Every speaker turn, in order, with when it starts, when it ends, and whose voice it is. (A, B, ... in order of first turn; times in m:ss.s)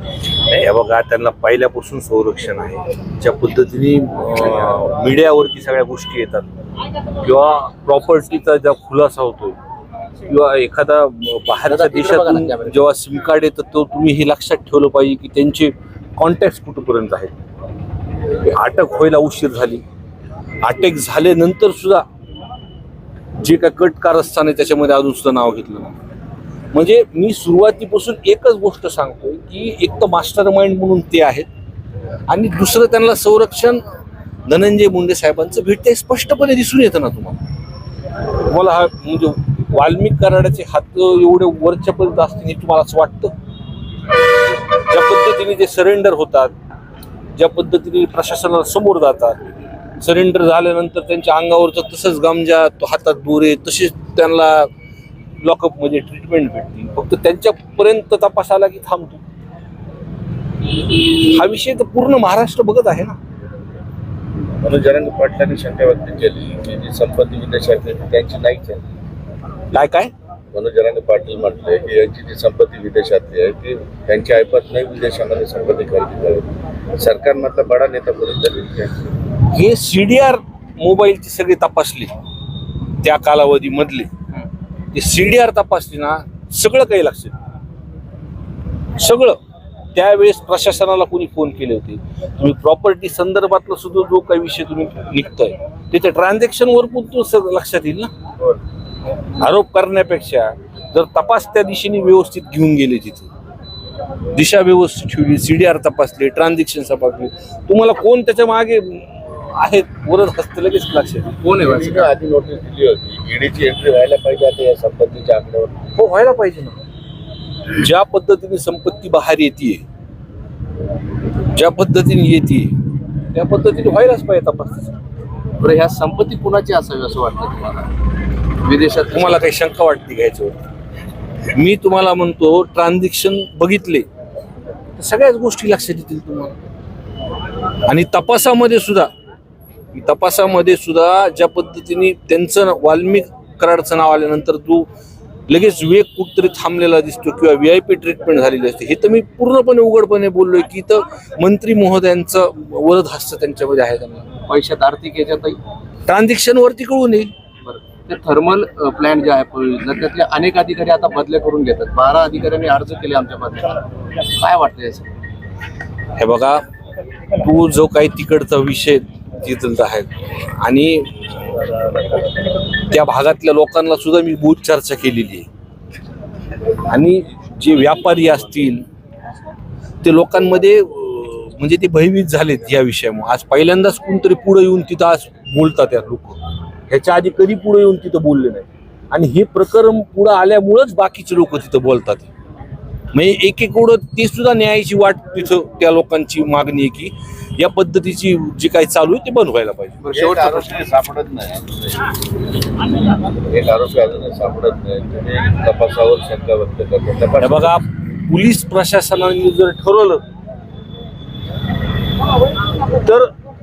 0:00.4-0:06.5 A
0:07.1-0:09.6 A
0:10.3-0:17.3 A
0:11.6-0:12.8 B
0:18.4-0:19.8 A
0:20.6-0:22.0 A
0:23.4-0:26.0 A
0:26.7-0:31.5 A
0:32.3-0:33.8 A
0:34.5-0:37.4 A
0:38.3-0:43.3 A
0:44.7-0:46.5 A
0:47.4-0:49.4 A
0:50.0-0:54.7 A
0:55.4-0:59.2 A
1:00.7-1:03.2 A
1:04.6-1:08.8 C
1:09.7-1:10.1 A
1:10.5-1:19.1 C
1:19.5-1:22.1 A
1:23.0-1:24.1 A
1:24.9-1:27.4 A
1:29.0-1:29.4 A
1:30.0-1:38.1 A
1:39.4-1:43.3 A
1:44.4-1:51.4 A
1:51.4-1:52.1 B
1:51.6-1:55.8 C
1:56.0-1:56.8 A
1:57.7-1:59.8 A
2:01.5-2:04.9 A
2:05.6-2:07.9 B
2:08.6-2:09.4 B
2:09.1-2:10.6 A
2:11.5-2:14.1 A
2:15.0-2:16.6 A
2:17.9-2:19.1 A
2:19.9-2:24.9 A
2:25.5-2:34.3 A
2:34.5-2:35.6 B
2:36.1-2:37.3 A
2:37.6-2:43.8 B
2:44.3-2:45.1 B
2:46.2-2:46.6 A
2:47.4-2:52.1 A
2:52.9-2:55.5 A
2:56.9-2:58.8 A
3:00.0-3:06.4 A
3:06.9-3:12.3 A
3:13.1-3:20.0 A
3:20.0-3:20.8 B
3:20.1-3:22.1 C
3:23.5-3:27.8 C
3:27.4-3:30.2 A
3:32.9-3:33.3 A